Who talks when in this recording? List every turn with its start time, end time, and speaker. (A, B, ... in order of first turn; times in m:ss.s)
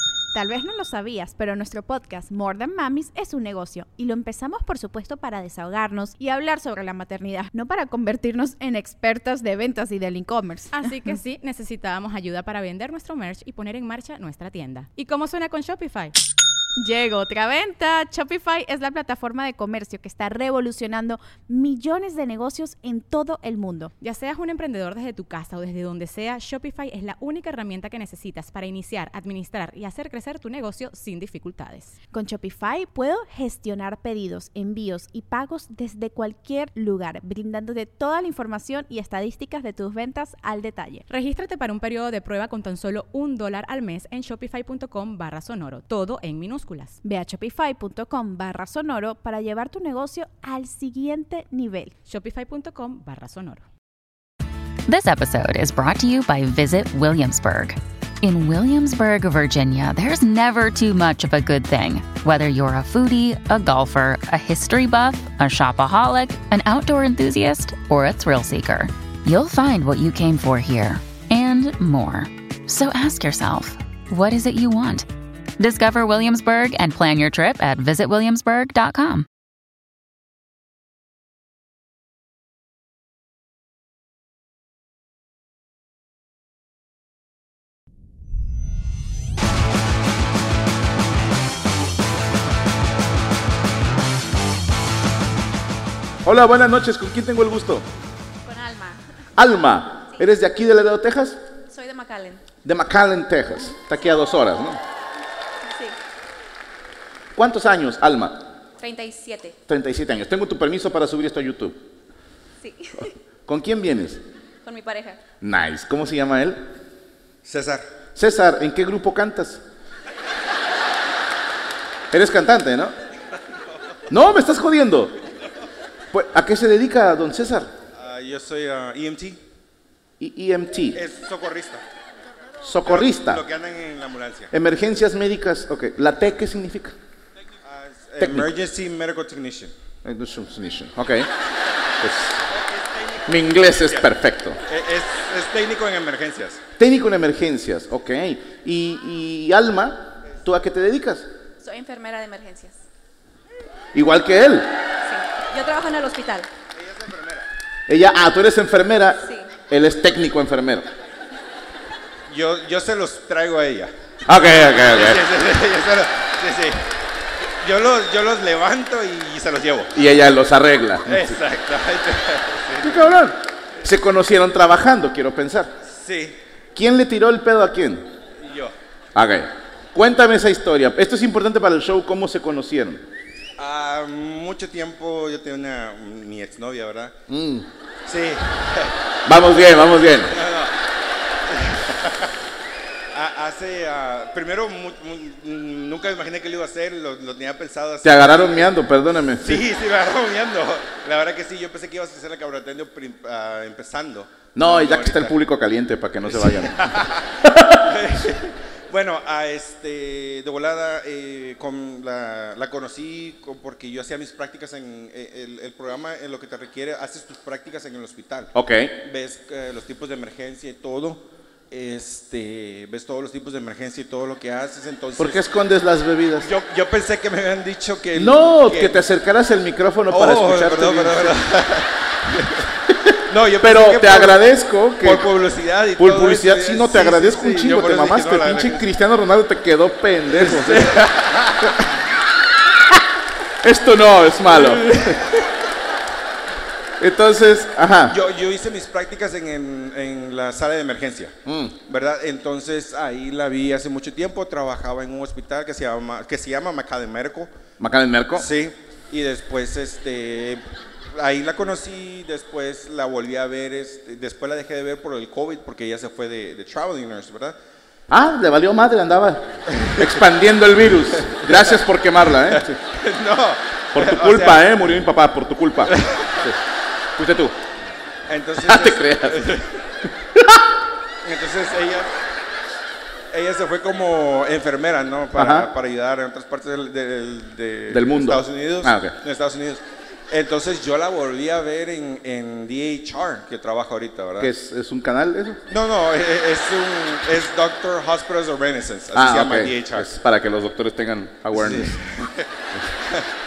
0:00.3-0:10.7 A
0:10.7-0:16.1 B
0:16.8-0:23.9 A
0:24.0-0:32.0 B
0:32.1-0:41.0 A
0:41.1-0:47.0 B
0:47.0-0:51.9 A
0:52.0-0:53.7 B
0:54.9-1:15.1 C
1:15.6-1:19.3 C
1:36.2-1:37.9 D
1:38.4-1:39.0 E
1:39.4-1:41.4 D
1:41.7-1:42.4 E
1:42.6-1:44.8 D
1:45.7-1:46.0 E
1:47.4-1:48.5 D
1:48.8-1:49.6 E
1:49.7-1:51.8 D
1:52.6-1:53.1 E
1:53.5-1:54.2 D
1:54.6-1:55.2 E
1:55.4-1:56.6 D
1:57.4-1:57.9 F
1:58.2-1:59.6 D
2:02.1-2:02.9 D
2:04.1-2:05.2 D
2:06.1-2:07.7 D
2:07.9-2:09.4 F
2:10.2-2:11.0 D
2:10.9-2:11.8 F
2:12.6-2:13.4 D
2:12.8-2:14.5 F
2:14.5-2:17.0 D
2:17.6-2:19.7 F
2:18.2-2:18.5 D
2:20.0-2:21.3 D
2:22.0-2:22.4 D
2:22.5-2:24.1 F
2:23.3-2:24.6 D
2:24.7-2:26.6 F
2:26.8-2:31.3 D
2:31.6-2:32.8 E
2:33.9-2:34.7 D
2:35.0-2:36.5 E
2:36.7-2:37.5 F
2:37.9-2:40.9 D
2:39.2-2:39.5 E
2:42.3-2:43.9 F
2:44.3-2:45.2 D
2:44.9-2:46.8 F
2:47.6-2:50.0 F
2:49.9-2:51.4 D
2:51.1-2:53.2 F
2:52.8-2:55.7 D
2:55.9-2:56.4 F
2:56.8-2:58.1 D
2:58.3-2:58.7 F
2:59.2-3:03.0 D
3:03.6-3:07.1 F
3:07.3-3:07.7 D
3:08.1-3:10.7 F
3:09.2-3:10.4 D
3:11.5-3:12.3 F
3:13.1-3:18.7 F
3:18.0-3:19.6 D
3:19.4-3:25.4 F
3:24.5-3:26.8 D
3:26.3-3:38.5 F
3:27.4-3:27.9 D
3:38.5-3:38.9 D
3:39.0-3:45.5 F
3:45.2-3:46.5 D
3:46.4-3:49.0 F
3:48.2-3:51.4 D
3:50.1-3:52.7 F
3:53.3-3:54.5 F
3:53.6-3:55.3 D
3:55.0-3:58.9 F
3:56.0-4:01.0 D
4:00.3-4:01.8 F
4:03.6-4:05.2 D
4:04.5-4:05.4 F
4:07.0-4:08.2 D
4:08.1-4:11.3 F
4:11.4-4:11.8 D
4:11.9-4:17.5 F
4:17.8-4:18.5 D
4:18.4-4:20.6 F
4:21.1-4:27.6 F
4:28.1-4:32.8 D
4:29.7-4:30.1 F
4:31.4-4:31.8 F
4:32.5-4:34.7 F
4:34.0-4:36.6 D
4:35.9-4:36.3 F
4:37.2-4:37.6 D
4:38.3-4:39.7 F
4:38.6-4:39.4 D
4:40.4-4:40.6 D
4:41.2-4:42.1 F
4:43.3-4:54.5 F
4:45.4-4:45.7 D
4:47.9-4:49.2 D
4:54.4-4:55.6 D
4:55.7-5:00.1 F
4:59.1-5:02.0 D
5:01.5-5:02.5 F